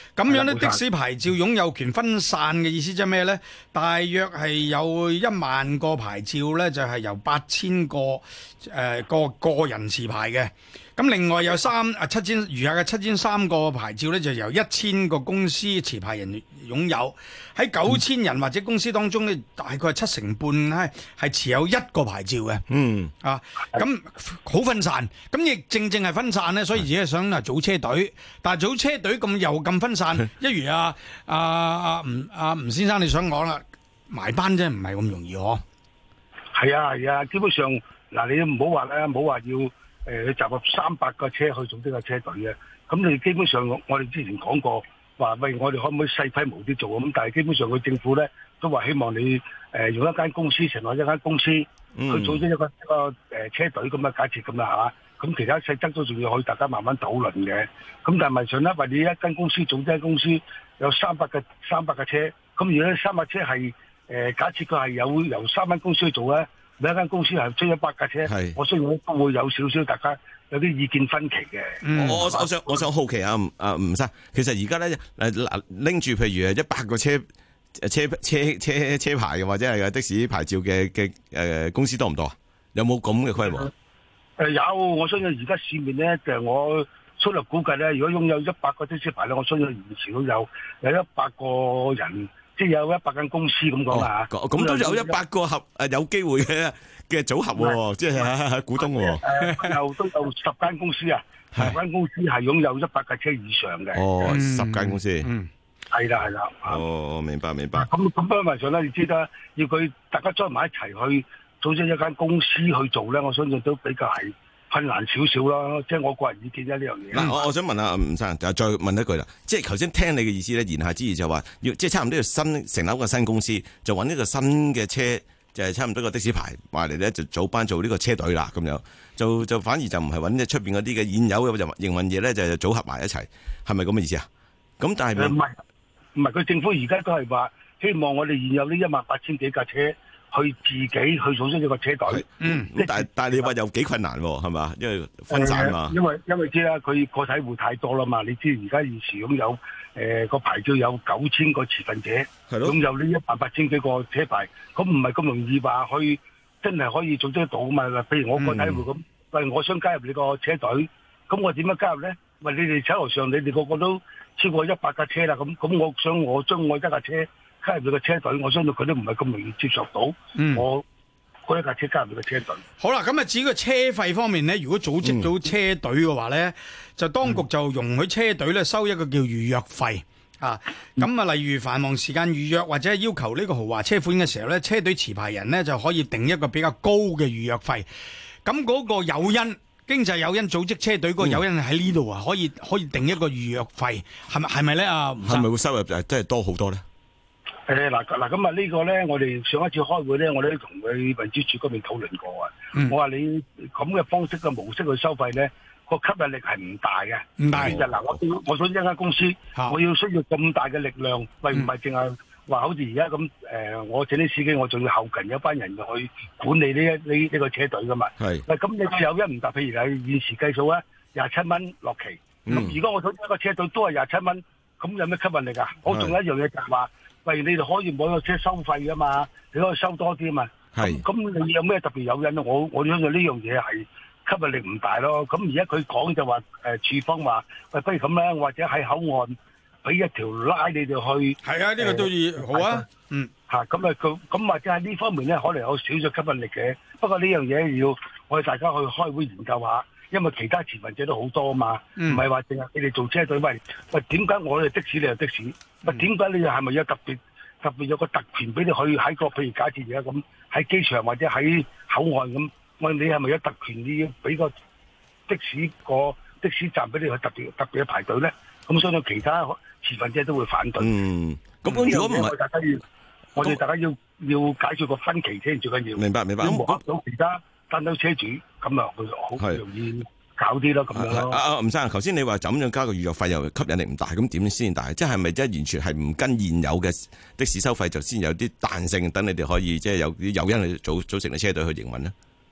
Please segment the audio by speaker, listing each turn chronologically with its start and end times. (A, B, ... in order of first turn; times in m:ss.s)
0:00.2-0:22.6 A
0:00.3-0:00.8 B
0:22.7-0:23.1 C
0:23.2-0:35.6 A
0:36.5-1:12.8 B
0:52.0-0:52.4 C
1:08.2-1:08.6 C
1:11.8-1:12.3 A
1:12.0-1:17.2 C
1:17.8-1:23.7 C
1:24.4-1:35.2 B
1:33.9-1:39.2 C
1:38.8-1:44.1 B
1:39.3-1:39.7 A
1:43.9-1:45.3 C
1:44.2-1:45.5 A
1:45.9-1:46.8 B
1:46.7-1:47.9 C
1:47.7-1:57.4 B
1:57.1-2:14.3 C
2:14.8-2:15.4 C
2:15.2-2:15.6 B
2:16.1-2:23.5 B
2:22.1-2:26.0 C
2:22.4-2:22.7 A
2:25.3-2:50.8 B
2:32.5-2:32.8 C
2:50.4-2:50.6 A
2:51.5-2:52.6 B
2:52.8-3:07.8 A
2:55.0-2:55.3 C
3:08.4-3:15.4 A
3:15.2-3:16.8 C
3:17.7-4:02.8 B
3:27.4-3:27.8 A
3:27.5-3:28.1 C
3:38.2-3:38.4 C
3:42.4-3:42.8 C
3:45.9-3:46.2 C
3:50.7-3:51.0 C
4:01.4-4:03.3 A
4:03.5-4:24.5 B
4:12.0-4:12.2 A
4:25.3-4:30.9 B
4:30.8-4:32.3 C
4:31.7-4:32.8 B
4:33.4-4:41.4 B
4:36.0-4:36.8 C
4:40.9-4:52.1 C